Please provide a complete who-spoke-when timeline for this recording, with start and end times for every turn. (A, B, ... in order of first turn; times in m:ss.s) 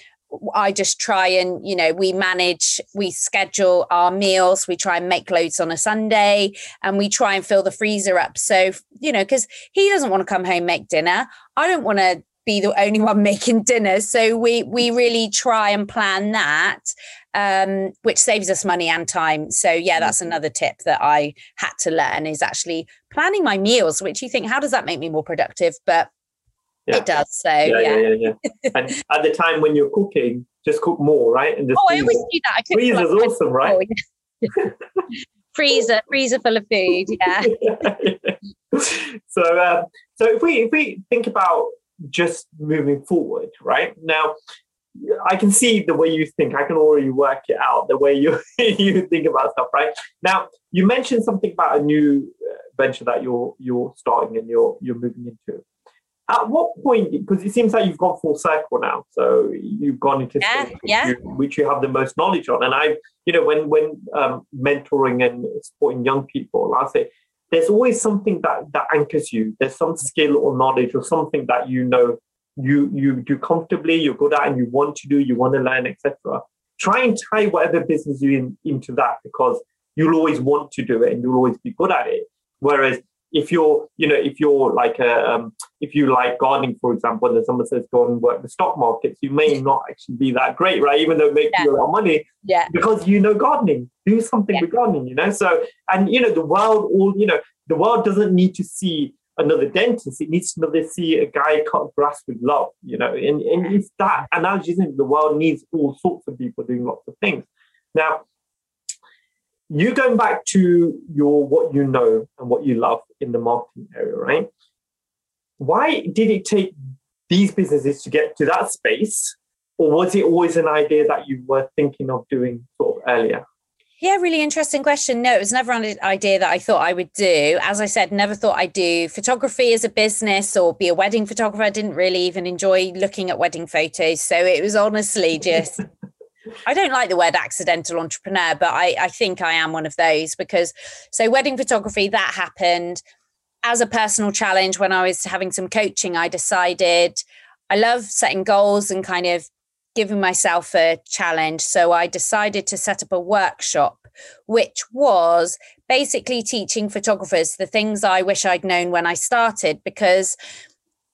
0:00.3-0:26.1 A
0:26.9-0:28.1 A
0:27.6-0:33.8 B
0:31.7-0:33.9 A
0:35.5-0:37.7 A
0:37.4-0:44.3 B
0:45.0-0:55.6 B
0:56.3-1:48.2 B
1:00.4-1:01.1 A
1:32.4-1:32.7 A
1:49.7-1:54.5 B
1:55.6-1:56.7 B
1:57.3-2:03.4 B
2:04.0-2:15.8 A
2:16.6-2:23.0 A
2:23.6-2:40.3 A